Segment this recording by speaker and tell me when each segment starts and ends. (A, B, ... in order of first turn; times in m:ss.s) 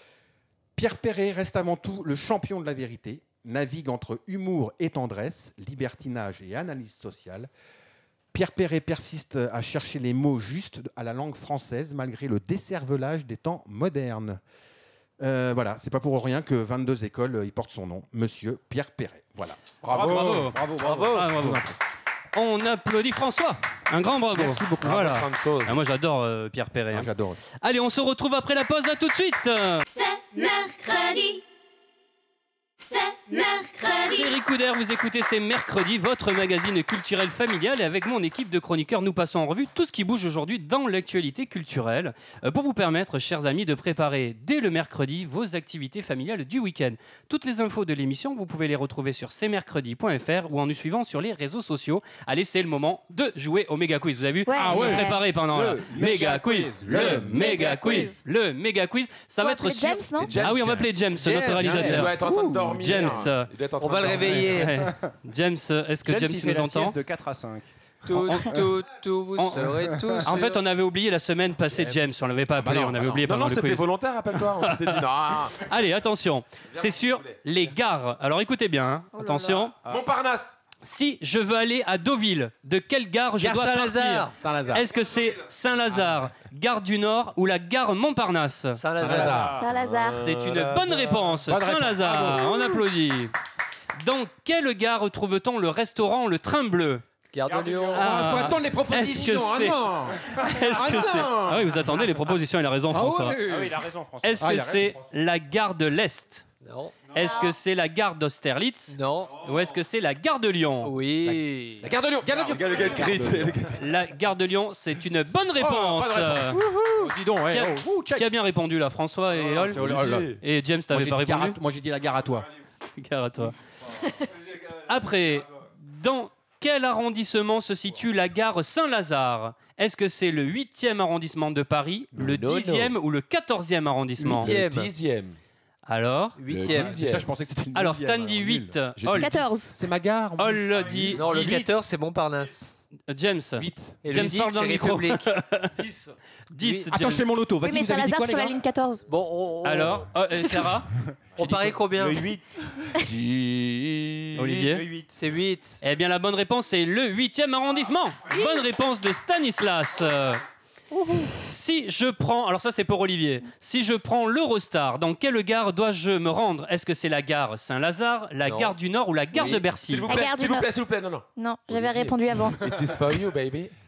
0:00.8-0:07.5 A
0:08.3-0:14.4 A
0:15.2-0:21.8 A
0:19.9-0:21.1 B
0:20.8-0:21.3 C
0:21.1-0:21.6 D
0:22.3-0:27.1 D
0:24.3-0:24.8 A
0:24.8-0:25.8 E
0:26.9-0:27.4 A
0:27.6-0:29.8 D
0:29.8-0:31.4 F
0:32.8-0:34.3 F
0:34.0-1:03.5 D
0:54.5-0:55.2 G
0:54.6-0:55.1 A
0:54.7-0:58.1 B
0:56.9-0:58.1 A
0:57.3-0:58.1 G
0:59.4-1:00.4 G
1:00.2-1:04.7 E
1:01.6-1:02.1 B
1:02.1-1:02.6 A
1:03.8-1:04.8 C
1:04.4-1:07.0 D
1:06.0-1:07.7 B
1:08.0-1:10.6 C
1:08.2-1:08.6 D
1:09.4-1:13.8 D
1:12.5-1:13.2 A
1:13.2-1:15.6 E
1:14.4-1:15.0 D
1:15.5-1:19.7 D
1:16.7-1:17.4 E
1:19.1-1:19.7 G
1:19.8-1:20.6 E
1:20.8-1:28.8 D
1:23.4-1:24.4 C
1:24.3-1:24.8 A
1:28.7-1:29.6 C
1:29.0-1:29.6 A
1:29.0-1:30.6 E
1:29.2-1:29.4 B
1:29.5-1:30.3 G
1:30.2-1:33.3 D
1:30.8-1:31.4 C
1:31.4-1:32.8 A
1:34.0-1:37.0 D
1:37.3-1:38.2 C
1:37.5-1:38.6 B
1:37.9-1:41.9 A
1:37.9-1:39.8 D
1:40.3-1:43.4 D
1:42.9-1:43.8 A
1:43.4-1:44.8 B
1:44.2-1:46.4 D
1:44.4-1:44.9 A
1:46.6-1:47.1 C
1:47.0-1:50.9 D
1:48.9-1:49.4 C
1:50.8-1:51.9 C
1:51.8-1:53.8 E
1:52.2-1:53.7 A
1:53.7-1:56.6 D
1:55.6-1:58.3 A
1:57.5-2:01.6 D
1:59.3-2:02.5 A
1:59.8-2:00.3 E
2:03.0-2:03.6 D
2:04.1-2:14.5 D
2:12.1-2:12.9 E
2:14.2-2:14.9 C
2:14.3-2:15.4 E
2:15.9-2:16.4 D
2:16.4-2:17.3 C
2:16.5-2:17.3 E
2:16.7-2:18.8 A
2:17.7-2:19.4 D
2:19.0-2:19.5 E
2:19.1-2:19.8 G
2:19.7-2:21.4 A
2:20.4-2:21.7 D
2:21.1-2:22.7 C
2:23.1-2:25.8 D
2:23.6-2:24.0 A
2:24.0-2:25.3 C
2:26.5-2:27.3 D
2:26.6-2:26.9 C
2:26.9-2:28.6 A
2:27.6-2:29.0 G
2:29.1-2:30.1 C
2:29.6-2:30.9 D
2:31.4-2:32.2 C
2:31.9-2:32.9 B
2:32.9-2:34.5 E
2:34.3-2:34.8 D
2:34.5-2:35.1 B
2:35.1-2:35.8 C
2:35.8-2:40.4 D
2:38.3-2:38.6 G
2:41.3-2:50.2 D
2:48.4-2:48.8 C
2:49.3-2:53.7 E
2:50.0-2:50.7 G
2:51.4-2:52.7 G